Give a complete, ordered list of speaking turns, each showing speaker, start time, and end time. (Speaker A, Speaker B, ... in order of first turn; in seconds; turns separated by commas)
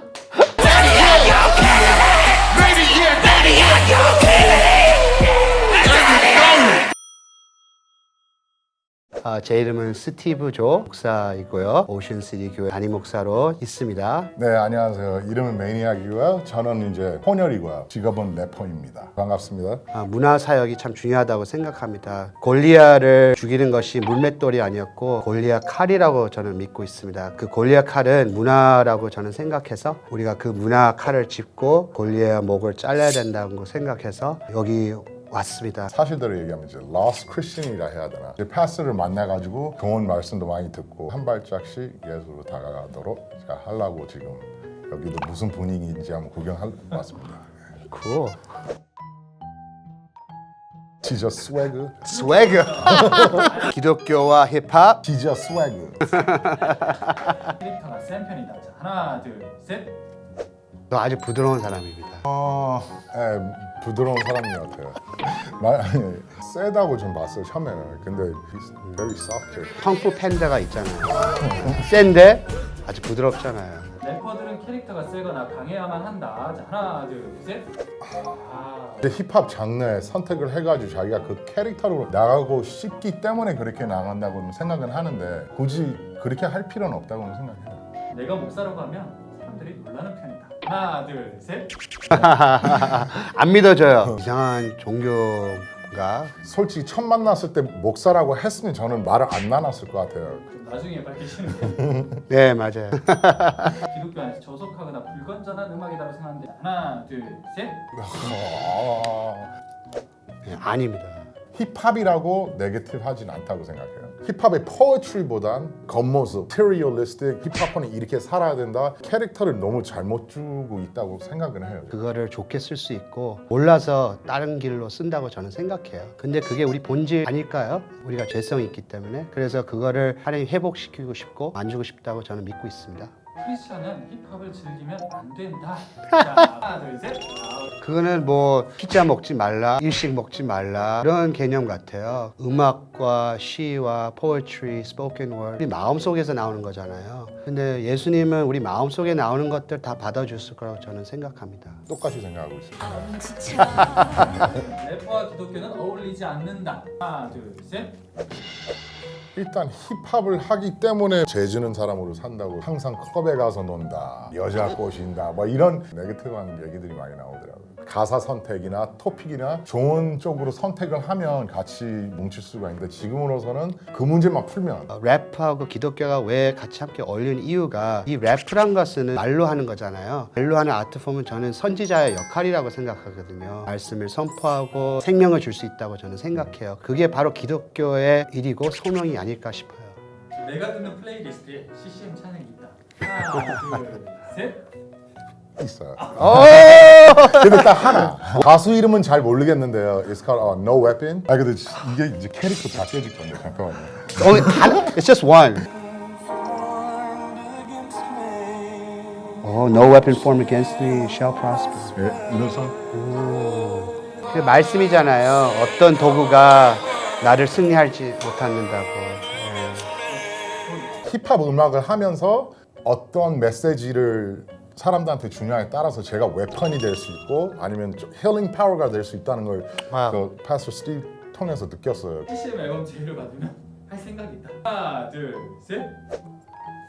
Speaker A: 0.7-1.4, Speaker A: 9.2-14.3, Speaker B: 14.3-19.8, Speaker A: 19.9-35.9, Speaker B: 35.9-47.5, Speaker A: 47.9-48.4, Speaker B: 51.0-52.3, Speaker A: 52.0-55.0, Speaker C: 52.1-53.7, Speaker B: 52.8-53.5, Speaker B: 55.0-56.0, Speaker A: 56.0-57.5, Speaker C: 56.7-59.9, Speaker A: 60.9-62.3, Speaker B: 62.3-69.8, Speaker A: 69.8-73.9, Speaker C: 74.0-77.7, Speaker C: 78.2-79.1, Speaker B: 79.0-87.8, Speaker C: 88.1-91.7, Speaker A: 92.1-96.3, Speaker B: 96.4-100.4, Speaker C: 100.4-101.8, Speaker B: 101.6-102.2, Speaker A: 102.3-103.8, Speaker C: 103.8-107.8, Speaker B: 107.9-109.5, Speaker A: 110.4-111.3, Speaker B: 111.5-122.0, Speaker A: 121.9-133.1, Speaker C: 133.4-137.7, Speaker A: 136.1-136.5, Speaker A: 137.8-151.8, Speaker B: 151.9-154.5, Speaker A: 153.4-154.3, Speaker C: 153.7-157.9, Speaker B: 159.3-174.9, Speaker A: 174.9-190.0, Speaker C: 190.3-194.6, Speaker B: 195.6-204.9, Speaker A: 196.1-198.1, Speaker A: 204.1-205.7, Speaker A: 209.4-212.0, Speaker B: 211.9-212.8, Speaker A: 212.9-219.9, Speaker C: 220.1-221.0, Speaker B: 221.0-232.3, Speaker A: 229.9-230.2, Speaker C: 232.3-235.9